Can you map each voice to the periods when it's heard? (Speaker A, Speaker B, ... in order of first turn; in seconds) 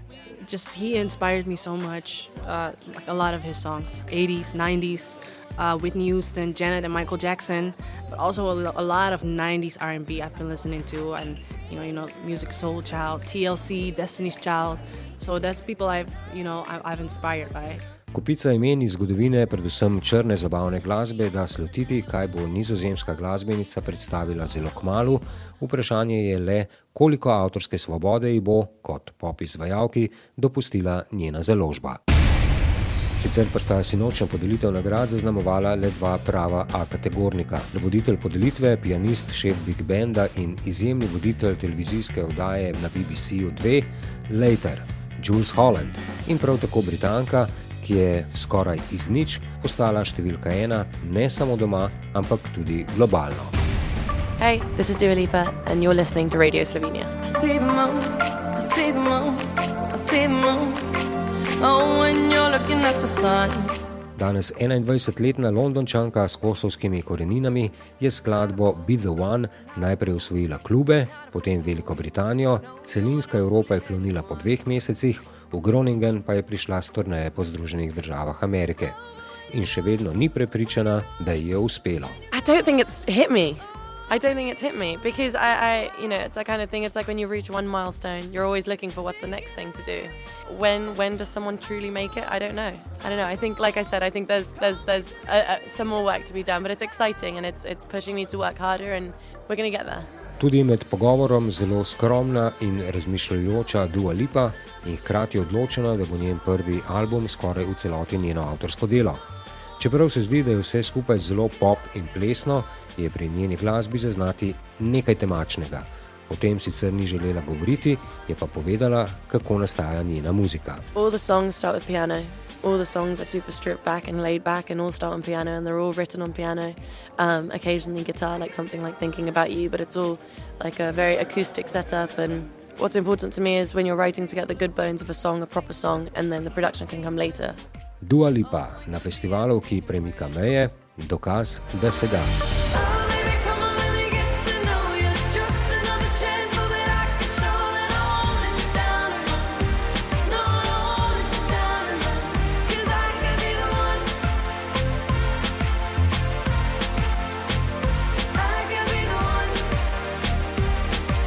Speaker A: 0.4-17.8
Speaker B: 18.1-32.0, 33.2-53.5, 64.2-79.0, 79.5-82.2, 100.4-109.2, 109.8-120.8, 138.0-142.3
Speaker C: 54.4-57.4, 58.6-59.1, 59.9-60.9, 82.3-100.1, 120.9-137.6
Speaker D: 57.2-60.8, 61.6-63.8, 142.7-149.7, 150.2-154.2, 158.3-159.8